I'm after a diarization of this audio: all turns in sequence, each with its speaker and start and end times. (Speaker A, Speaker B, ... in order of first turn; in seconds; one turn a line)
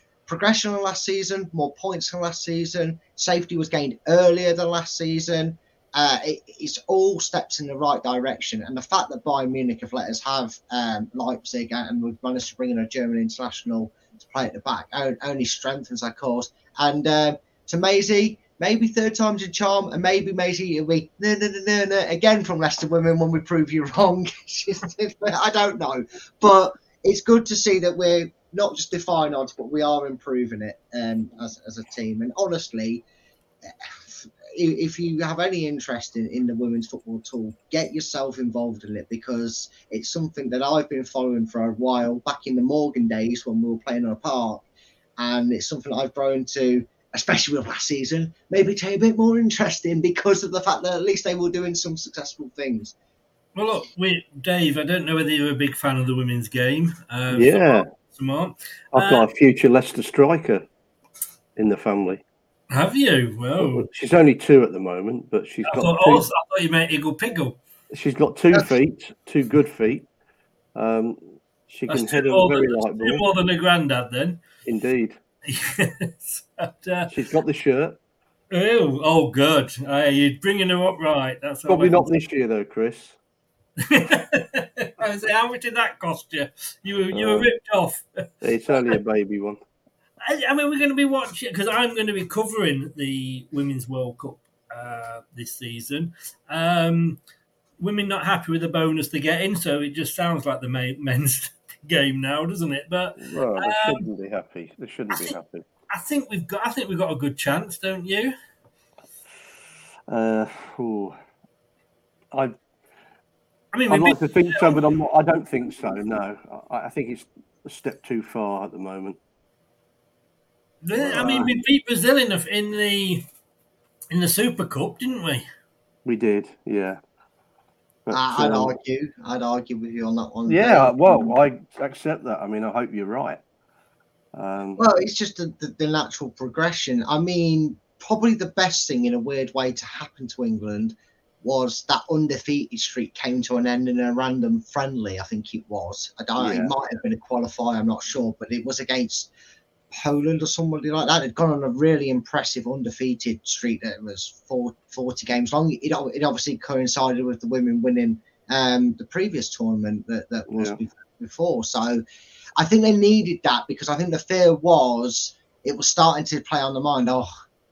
Speaker A: 0.3-33.0
Speaker A: 33.7-44.6
Speaker A: 45.2-52.9
Speaker B: 53.5-59.3
Speaker C: 57.3-57.9
Speaker C: 58.9-60.6
Speaker C: 61.6-62.2
Speaker B: 62.7-63.9
Speaker C: 63.6-66.2
Speaker B: 65.7-67.6
Speaker C: 67.9-70.0
Speaker C: 70.7-73.2
Speaker B: 71.9-74.4
Speaker C: 74.6-75.2
Speaker B: 75.5-77.1
Speaker C: 77.1-78.0
Speaker B: 78.5-82.1
Speaker C: 81.7-83.2
Speaker B: 83.8-89.0
Speaker C: 87.1-87.5
Speaker C: 88.4-89.6
Speaker B: 90.2-97.2
Speaker B: 97.8-104.0
Speaker C: 103.2-105.6
Speaker B: 105.9-108.3
Speaker C: 110.1-111.2
Speaker B: 113.7-114.8
Speaker C: 113.9-119.2
Speaker B: 120.8-123.2
Speaker C: 121.0-121.5
Speaker B: 124.1-125.4
Speaker C: 126.0-127.0
Speaker C: 128.1-128.7
Speaker A: 128.1-131.4
Speaker C: 130.5-133.4
Speaker C: 134.3-134.8
Speaker A: 134.8-149.3
Speaker C: 146.3-146.7
Speaker A: 149.9-162.0
Speaker C: 160.5-160.8
Speaker A: 162.6-167.3